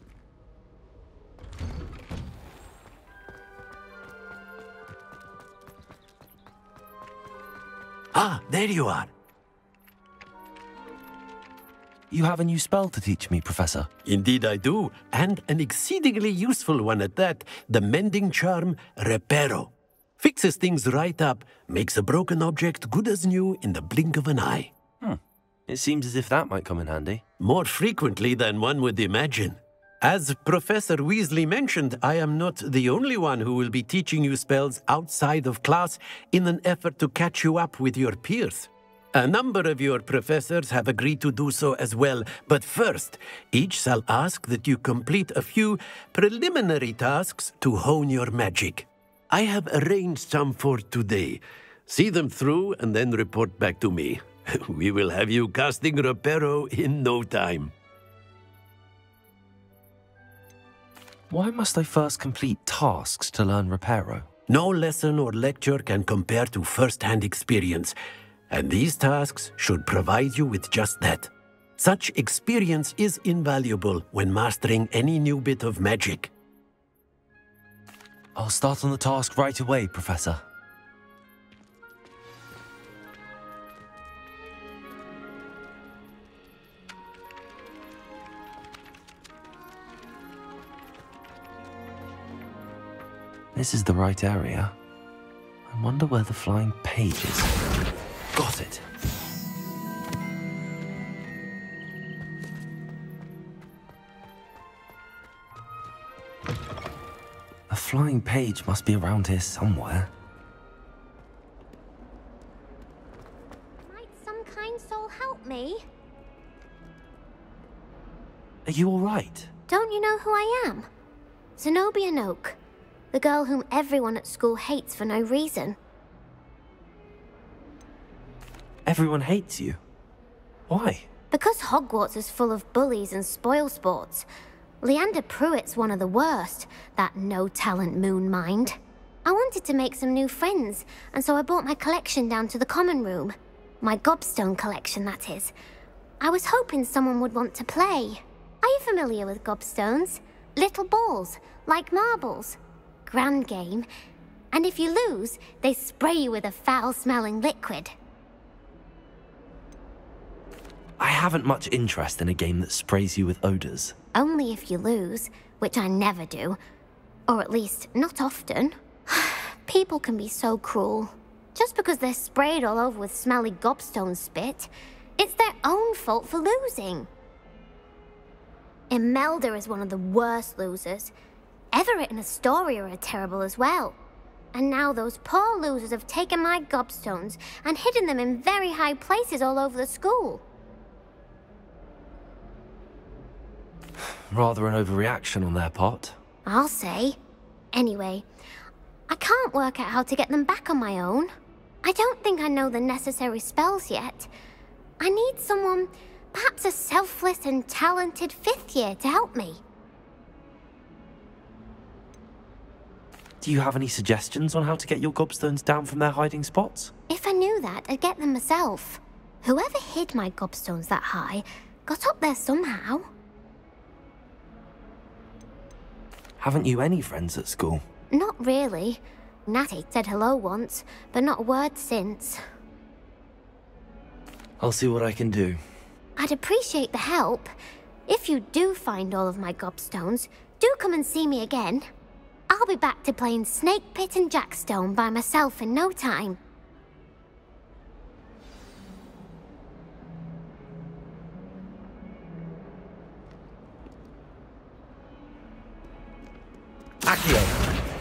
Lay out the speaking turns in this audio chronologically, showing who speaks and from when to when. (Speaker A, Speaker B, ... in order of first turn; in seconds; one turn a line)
Speaker A: 8.1-9.1
Speaker B: 12.1-13.9
Speaker A: 14.1-24.7
Speaker B: 25.0-27.2
Speaker A: 27.4-57.7
Speaker B: 61.3-64.3
Speaker A: 64.5-68.0
Speaker A: 68.5-76.3
Speaker B: 78.3-80.4
Speaker B: 93.5-94.8
Speaker B: 95.7-97.5
Speaker B: 98.3-98.8
Speaker B: 107.7-110.1
Speaker C: 113.8-115.8
Speaker B: 118.7-119.5
Speaker C: 119.7-120.9
Speaker C: 121.6-122.6
Speaker C: 123.1-125.8
Speaker B: 128.9-129.8
Speaker B: 130.7-131.1
Speaker C: 131.3-134.2
Speaker C: 134.8-145.5
Speaker C: 146.2-153.9
Speaker C: 154.5-157.9
Speaker B: 161.0-163.9
Speaker C: 164.1-166.6
Speaker C: 167.3-177.1
Speaker C: 178.9-181.1
Speaker C: 181.7-184.0
Speaker C: 184.5-190.4
Speaker B: 194.0-196.2
Speaker C: 196.4-197.2
Speaker C: 197.7-198.2
Speaker C: 199.1-201.3
Speaker C: 201.8-204.3
Speaker C: 205.0-209.6
Speaker B: 213.4-216.9
Speaker C: 217.1-223.1
Speaker B: 226.4-227.8
Speaker C: 228.1-232.4
Speaker B: 234.6-235.6
Speaker C: 236.2-237.5
Speaker C: 238.1-241.9
Speaker C: 242.5-246.4
Speaker B: 257.1-257.5